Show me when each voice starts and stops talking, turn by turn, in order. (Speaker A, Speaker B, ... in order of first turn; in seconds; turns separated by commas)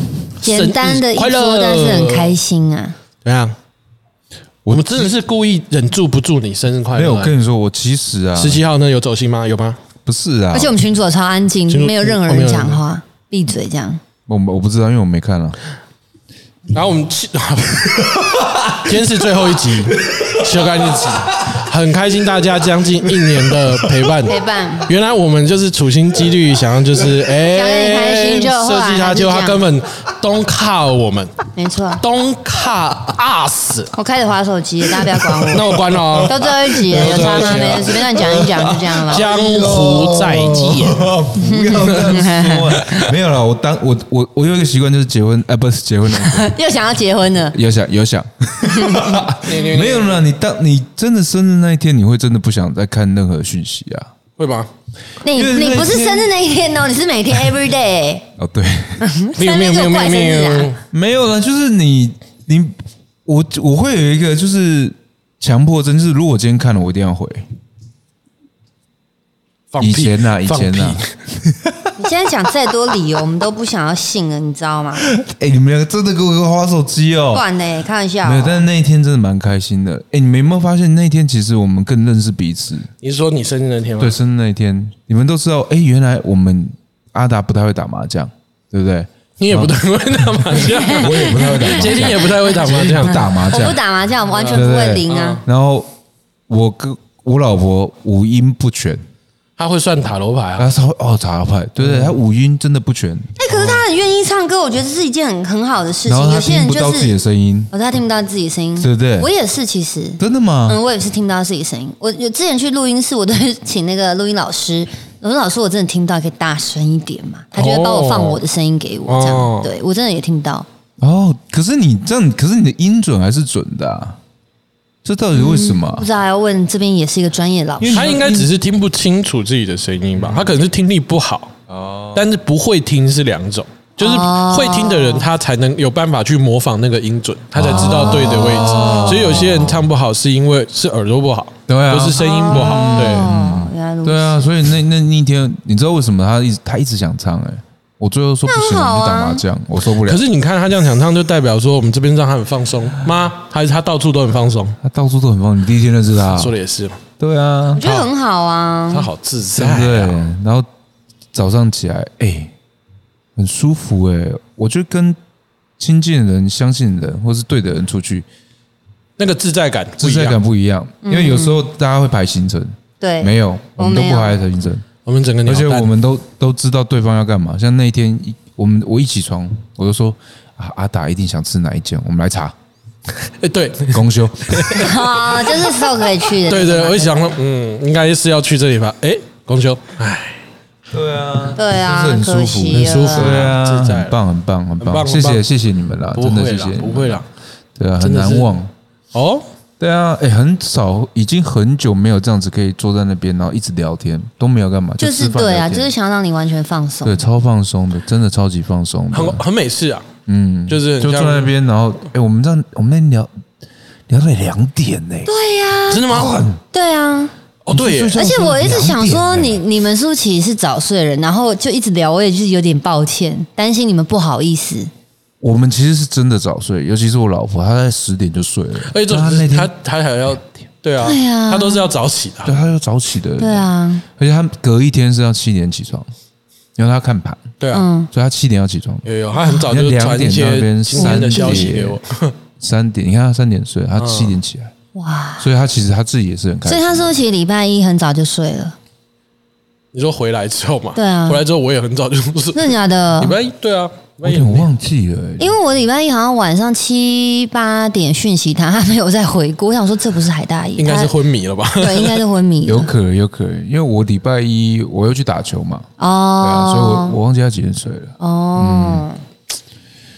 Speaker A: 0.4-2.3, Speaker B: 0.4-3.0, Speaker A: 3.2-3.5, Speaker C: 4.6-5.1, Speaker A: 4.7-7.3, Speaker C: 6.9-8.6, Speaker A: 8.3-9.8, Speaker C: 10.1-10.8, Speaker B: 10.5-14.0, Speaker A: 11.7-12.8, Speaker C: 14.3-15.6, Speaker A: 16.7-31.3, Speaker C: 18.1-18.9, Speaker C: 20.0-21.5, Speaker C: 23.0-24.1, Speaker B: 24.2-24.9, Speaker B: 27.4-29.6, Speaker B: 31.6-32.0, Speaker A: 31.9-33.9, Speaker B: 33.9-39.4, Speaker A: 35.4-42.1, Speaker C: 36.9-46.5, Speaker B: 41.4-43.1, Speaker B: 46.1-47.5, Speaker C: 47.5-54.1, Speaker B: 48.6-49.4, Speaker A: 49.4-50.2, Speaker A: 54.4-54.7, Speaker B: 55.2-58.3, Speaker C: 55.3-56.3, Speaker C: 58.4-59.0, Speaker B: 59.0-60.7, Speaker A: 59.4-60.8, Speaker C: 60.9-67.5, Speaker A: 69.7-71.1, Speaker C: 69.8-71.9, Speaker B: 72.0-75.1, Speaker C: 75.0-77.5, Speaker B: 77.3-78.6, Speaker C: 78.2-82.9, Speaker A: 83.0-84.2, Speaker C: 84.0-93.8, Speaker A: 89.4-93.3, Speaker B: 90.7-95.4, Speaker A: 94.3-95.4, Speaker C: 94.5-95.9, Speaker C: 96.5-99.0, Speaker A: 99.6-100.7, Speaker C: 100.6-103.8, Speaker A: 101.8-102.1, Speaker B: 103.4-107.1, Speaker C: 106.0-107.7, Speaker B: 107.7-120.7, Speaker C: 108.8-109.3, Speaker C: 110.2-110.8, Speaker A: 117.5-118.4, Speaker A: 119.1-119.7, Speaker C: 121.0-124.2, Speaker C: 125.0-126.1, Speaker B: 125.3-128.1, Speaker C: 127.8-128.5, Speaker A: 127.9-131.5, Speaker C: 130.2-130.5, Speaker C: 131.7-132.3, Speaker A: 132.1-143.3, Speaker B: 134.0-135.2, Speaker C: 137.5-139.8, Speaker B: 137.7-139.1, Speaker C: 141.7-150.2, Speaker B: 142.2-144.5, Speaker B: 148.4-149.4, Speaker A: 150.0-154.8, Speaker C: 154.8-156.5, Speaker A: 156.2-157.0, Speaker C: 157.2-157.9, Speaker B: 157.7-159.1, Speaker A: 157.8-158.1, Speaker A: 158.9-160.2, Speaker C: 159.6-160.7, Speaker C: 161.3-162.5, Speaker C: 163.3-165.2, Speaker C: 165.8-168.3, Speaker A: 169.2-170.4, Speaker C: 170.0-174.8, Speaker B: 171.0-171.6, Speaker B: 173.0-174.4, Speaker A: 175.0-175.9, Speaker C: 175.4-182.5, Speaker A: 183.2-185.8, Speaker C: 183.9-185.0, Speaker B: 184.7-187.3, Speaker A: 186.4-190.4, Speaker C: 190.9-197.2, Speaker B: 191.6-193.5, Speaker A: 192.7-194.2, Speaker A: 194.8-195.4, Speaker A: 196.1-197.3, Speaker C: 197.8-198.7, Speaker A: 198.0-198.6, Speaker A: 199.1-199.4, Speaker C: 199.8-205.9, Speaker B: 205.0-207.2, Speaker C: 207.0-209.4, Speaker A: 209.1-210.1, Speaker C: 210.2-213.3, Speaker A: 210.7-211.5, Speaker C: 214.1-215.3, Speaker B: 215.3-216.1, Speaker A: 215.9-216.4, Speaker C: 216.0-216.6, Speaker B: 216.7-217.3, Speaker A: 217.6-218.2, Speaker C: 217.7-219.6, Speaker B: 218.1-224.9, Speaker C: 225.4-229.7, Speaker A: 228.9-232.6, Speaker B: 231.0-231.9, Speaker C: 232.4-236.1, Speaker B: 233.4-234.0, Speaker C: 236.8-237.5, Speaker A: 237.6-237.8, Speaker B: 237.7-238.1, Speaker C: 238.1-242.0, Speaker A: 239.0-242.3, Speaker B: 240.9-241.7, Speaker C: 242.6-244.7, Speaker A: 244.0-244.4, Speaker B: 244.9-245.4, Speaker C: 245.4-247.2, Speaker B: 246.7-248.7, Speaker A: 249.9-254.7, Speaker B: 250.9-251.4, Speaker B: 252.5-253.4, Speaker C: 254.2-255.6, Speaker B: 255.4-261.1, Speaker A: 260.8-262.2, Speaker B: 261.8-262.9, Speaker C: 262.6-265.9, Speaker B: 266.0-267.2, Speaker C: 266.4-269.1, Speaker B: 268.2-269.2